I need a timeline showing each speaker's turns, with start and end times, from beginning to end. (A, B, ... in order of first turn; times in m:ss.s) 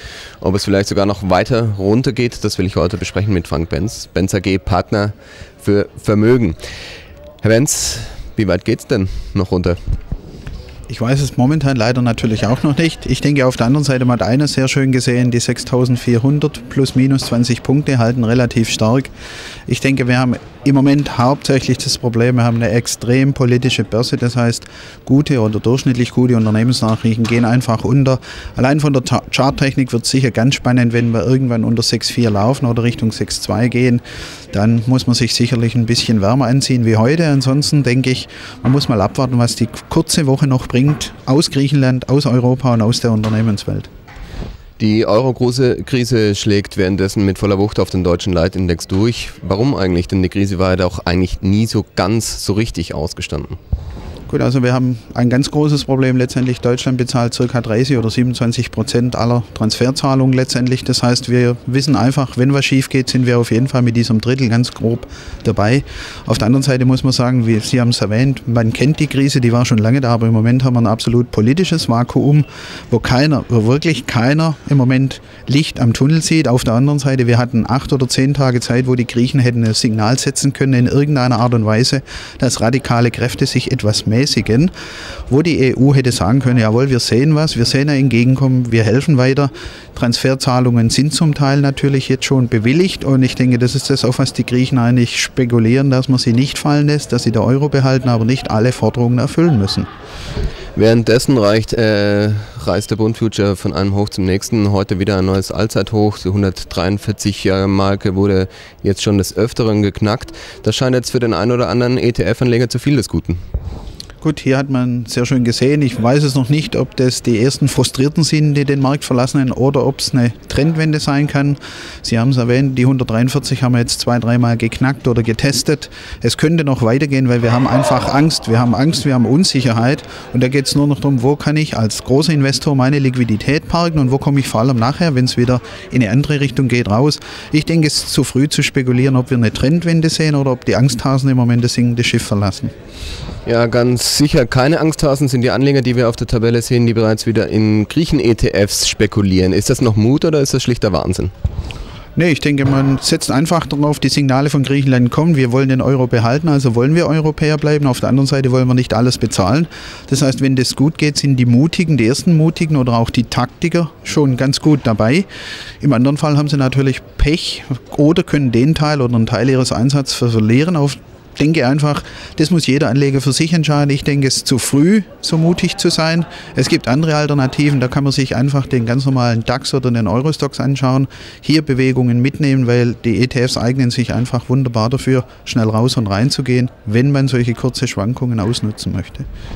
0:00.4-0:06.6 A
0:07.4-0:09.8 A
0:10.9-0:19.1 B
0:19.7-0:43.9 B
0:44.8-0:53.6 A
0:54.3-1:24.7 B
1:25.3-1:39.9 B
1:40.8-1:53.4 A
1:54.2-2:22.7 B
2:23.4-2:31.3 A
2:32.2-2:45.2 B
2:45.8-3:09.3 B